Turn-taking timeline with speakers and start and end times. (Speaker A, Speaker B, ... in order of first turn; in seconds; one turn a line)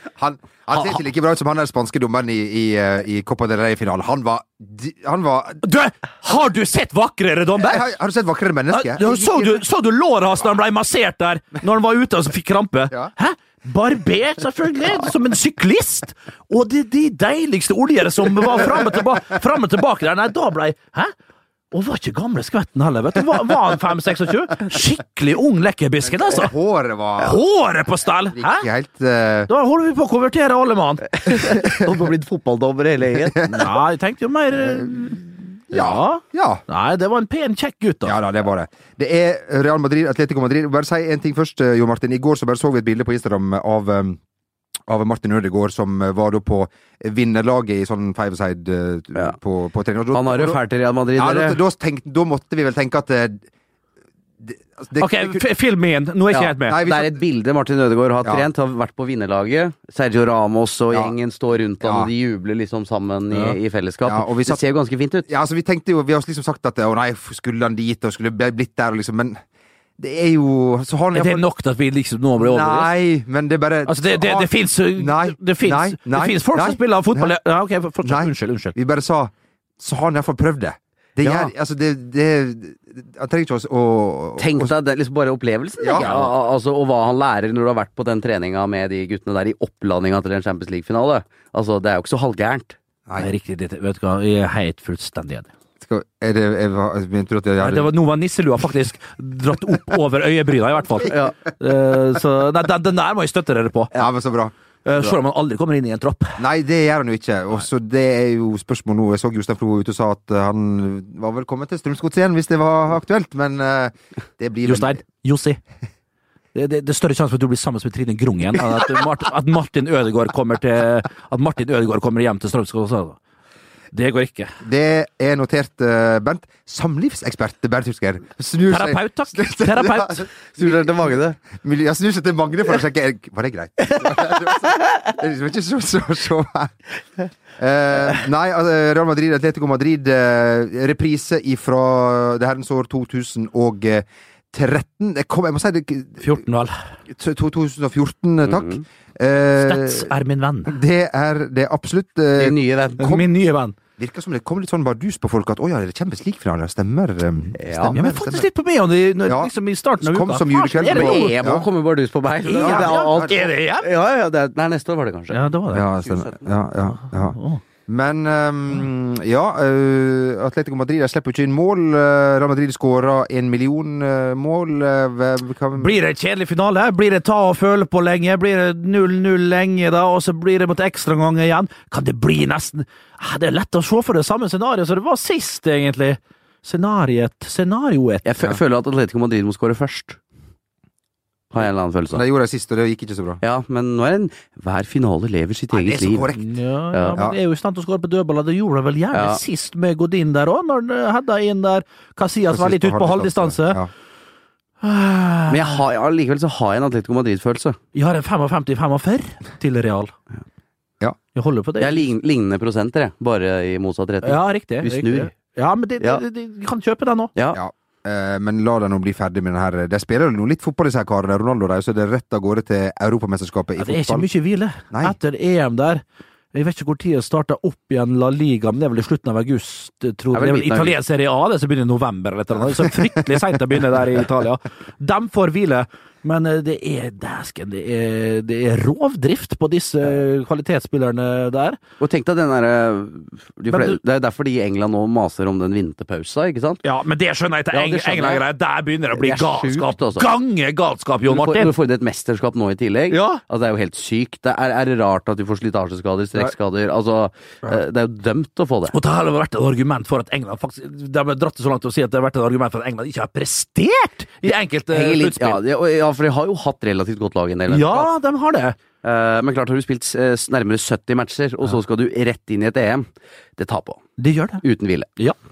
Speaker A: 0.1-5.6
Speaker B: 0.7-1.0
Speaker B: 5.6-7.8
Speaker A: 7.6-9.6
Speaker B: 8.7-21.1
Speaker B: 21.7-26.5
Speaker A: 26.0-27.4
Speaker B: 27.2-28.7
Speaker A: 28.3-29.5
Speaker B: 29.5-31.1
Speaker C: 31.1-33.5
Speaker A: 33.2-33.6
Speaker B: 33.5-38.1
Speaker A: 34.5-35.1
Speaker A: 35.7-36.6
Speaker A: 38.0-44.2
Speaker A: 44.9-50.6
Speaker C: 50.1-51.6
Speaker A: 51.1-53.5
Speaker A: 54.4-55.4
Speaker B: 55.0-56.8
Speaker C: 56.3-65.3
Speaker A: 56.6-57.2
Speaker A: 61.8-62.1
Speaker B: 63.3-63.6
Speaker A: 64.0-64.6
Speaker A: 65.3-69.4
Speaker A: 70.0-71.4
Speaker B: 71.1-72.9
Speaker A: 72.4-77.3
Speaker B: 73.8-78.7
Speaker A: 78.0-84.7
Speaker C: 84.4-92.8
Speaker A: 85.8-86.1
Speaker B: 86.0-86.3
Speaker B: 93.2-95.5
Speaker A: 95.8-97.9
Speaker B: 97.6-103.9
Speaker C: 101.1-101.3
Speaker A: 103.9-104.5
Speaker B: 104.8-106.4
Speaker A: 106.4-115.0
Speaker B: 114.6-115.6
Speaker B: 116.5-123.2
Speaker B: 123.9-124.5
Speaker A: 124.6-136.8
Speaker B: 128.7-130.3
Speaker C: 130.5-131.4
Speaker A: 137.6-146.4
Speaker B: 146.2-146.8
Speaker A: 147.1-150.1
Speaker C: 148.5-148.8
Speaker B: 149.6-150.8
Speaker A: 150.7-153.2
Speaker C: 152.4-153.2
Speaker B: 153.0-153.8
Speaker A: 154.0-158.5
Speaker C: 157.6-157.9
Speaker B: 157.9-161.3
Speaker A: 159.2-161.6
Speaker C: 160.9-166.5
Speaker B: 162.4-163.9
Speaker A: 162.6-163.4
Speaker B: 165.3-165.8
Speaker A: 165.7-176.0
Speaker B: 167.0-167.6
Speaker B: 175.7-188.3
Speaker C: 188.2-190.2
Speaker C: 191.5-192.2
Speaker A: 192.1-193.4
Speaker C: 193.4-196.3
Speaker A: 195.7-196.5
Speaker B: 196.3-203.8
Speaker C: 196.9-197.2
Speaker C: 199.1-199.4
Speaker A: 202.5-203.9
Speaker B: 204.8-205.8
Speaker C: 205.5-207.8
Speaker B: 207.9-210.1
Speaker B: 211.3-212.1
Speaker C: 211.8-215.3
Speaker B: 214.2-217.3
Speaker A: 217.5-224.3
Speaker B: 223.8-241.8
Speaker A: 224.9-225.2
Speaker C: 230.3-230.9
Speaker C: 242.0-246.8
Speaker B: 243.7-244.0
Speaker B: 246.8-251.7
Speaker C: 247.7-248.4
Speaker C: 249.1-250.3
Speaker C: 251.2-258.9
Speaker B: 253.1-253.4
Speaker B: 258.9-265.6
Speaker C: 264.9-268.1
Speaker B: 267.7-268.8
Speaker C: 269.0-273.1
Speaker C: 273.6-274.1
Speaker B: 274.2-274.6
Speaker C: 274.6-275.1